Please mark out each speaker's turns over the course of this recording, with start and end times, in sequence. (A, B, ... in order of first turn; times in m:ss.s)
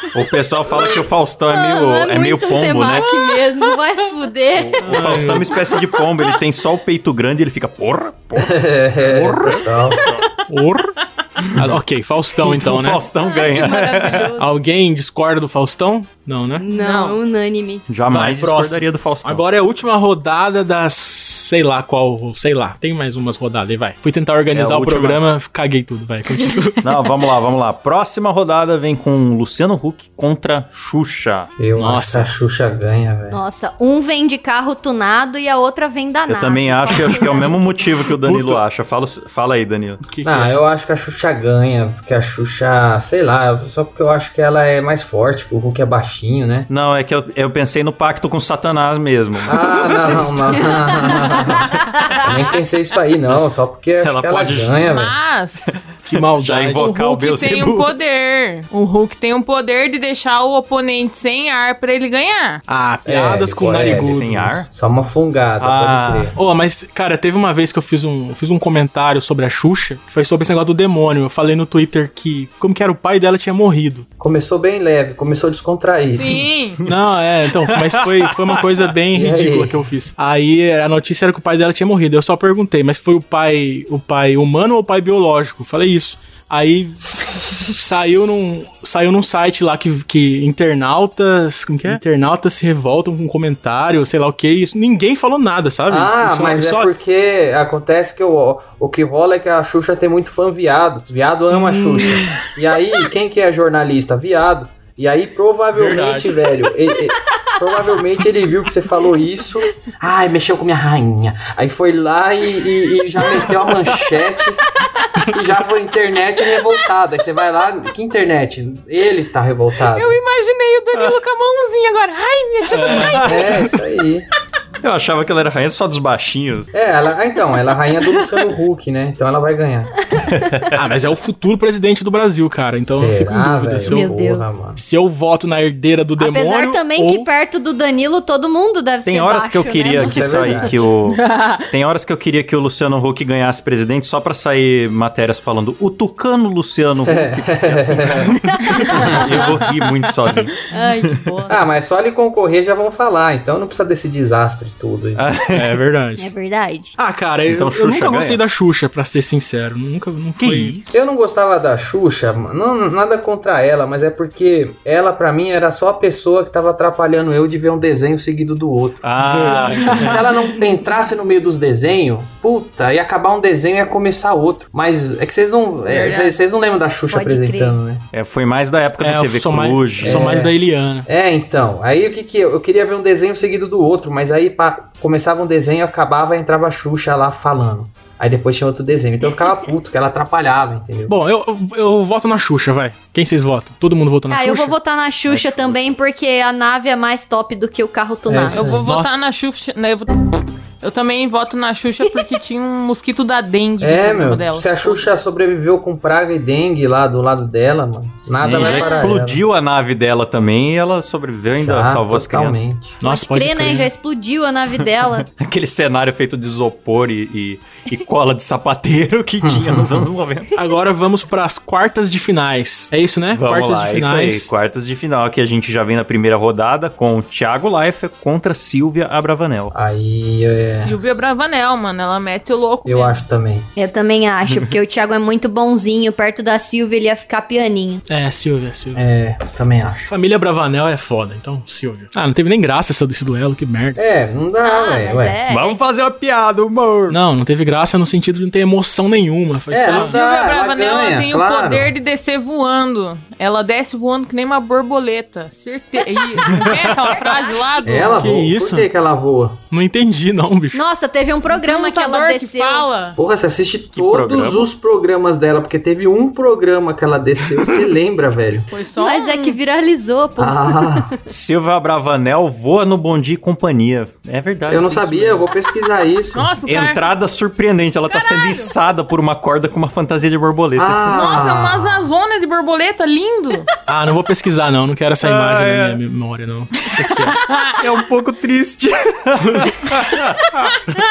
0:00.1-0:03.1 A
0:01.5-0:05.5 B
0:04.6-0:10.4 A
0:04.8-0:05.6 C
0:08.4-0:10.0 D
0:10.5-0:10.9 C
0:11.5-0:13.0 C
0:12.4-0:14.3 A
0:13.2-0:14.5 B
0:14.4-0:16.6 C
0:16.6-0:17.8 B
0:16.8-0:17.1 E
0:16.8-0:17.1 D
0:17.9-0:19.4 A
0:18.1-0:26.9 C
0:24.5-0:25.3 A
0:26.8-0:31.6 A
0:31.6-0:33.4 D
0:31.8-0:32.3 C
0:33.3-0:37.9 B
0:36.3-0:40.0 A
0:38.2-0:38.6 C
0:40.0-0:40.6 C
0:40.2-0:46.7 D
0:46.7-0:50.8 A
0:49.5-0:51.7 D
0:49.9-0:50.5 C
0:52.2-0:55.1 D
0:54.0-0:54.8 A
0:54.8-0:55.8 E
0:56.1-0:56.9 C
0:56.1-0:57.9 A
0:56.7-1:02.6 E
1:02.7-1:04.6 C
1:03.1-1:06.4 D
1:03.9-1:04.7 A
1:05.6-1:06.4 A
1:06.3-1:14.1 C
1:14.2-1:16.5 D
1:16.1-1:16.8 E
1:16.9-1:18.8 A
1:16.9-1:36.9 C
1:19.1-1:19.8 D
1:35.9-1:54.6 D
1:41.5-1:42.4 C
1:45.7-1:46.4 C
1:55.3-2:00.2 D
1:59.9-2:03.4 E
2:02.7-2:03.7 A
2:02.8-2:03.7 C
2:03.2-2:04.3 D
2:04.8-2:06.7 A
2:06.7-2:09.9 D
2:10.2-2:10.9 A
2:10.7-2:14.2 C
2:12.8-2:14.8 D
2:13.9-2:14.6 B
2:14.7-2:17.3 C
2:16.2-2:20.7 B
2:19.0-2:31.2 A
2:19.9-2:20.8 D
2:21.1-2:21.6 E
2:27.0-2:29.3 D
2:28.3-2:29.0 C
2:28.5-2:29.2 B
2:30.7-2:31.6 B
2:31.5-2:35.2 D
2:35.2-2:35.8 A
2:35.5-2:36.3 C
2:36.2-2:37.0 B
2:37.0-2:40.8 C
2:37.5-2:38.4 A
2:40.4-2:40.9 A
2:40.9-2:49.1 D
2:49.0-2:50.2 A
2:49.2-2:50.3 C
2:49.7-2:50.2 E
2:49.8-2:58.1 D
2:55.9-2:56.4 E
2:57.1-2:57.8 B
2:58.1-3:00.4 A
2:59.0-3:01.1 C
3:00.0-3:00.5 D
3:01.1-3:11.2 D
3:11.1-3:14.7 C
3:14.3-3:18.6 B
3:15.3-3:15.9 A
3:18.3-3:18.9 D
3:18.5-3:25.0 E
3:18.8-3:19.2 C
3:23.8-3:29.4 D
3:28.4-3:32.7 A
3:28.6-3:29.0 E
3:31.6-3:33.0 D
3:33.0-3:33.9 C
3:33.0-3:35.3 B
3:35.3-3:40.5 A
3:39.4-3:40.1 D
3:40.6-3:44.5 C
3:43.3-3:49.7 A
3:49.7-3:51.0 D
3:50.7-3:53.2 E
3:52.8-3:53.7 D
3:53.8-3:58.0 B
3:58.1-3:59.0 C
3:58.9-4:00.1 D
4:00.1-4:04.0 C
4:04.0-4:05.4 D
4:04.6-4:05.8 B
4:05.5-4:07.2 A
4:07.1-4:10.2 C
4:09.7-4:11.9 D
4:09.9-4:18.3 E
4:16.5-4:17.2 A
4:17.8-4:19.6 D
4:18.2-4:18.9 C
4:19.7-4:20.8 C
4:20.7-4:22.9 B
4:21.5-4:23.2 E
4:23.2-4:28.7 D
4:23.9-4:24.7 A
4:28.7-4:29.6 E
4:29.0-4:31.2 B
4:30.4-4:31.1 D
4:31.3-4:35.5 A
4:34.7-4:36.5 D
4:36.4-4:37.2 E
4:36.7-4:41.4 A
4:38.1-4:38.7 E
4:40.8-4:42.1 D
4:41.1-4:43.7 E
4:43.9-4:47.4 C
4:45.2-4:46.0 A
4:47.0-4:50.8 A
4:47.4-4:47.8 E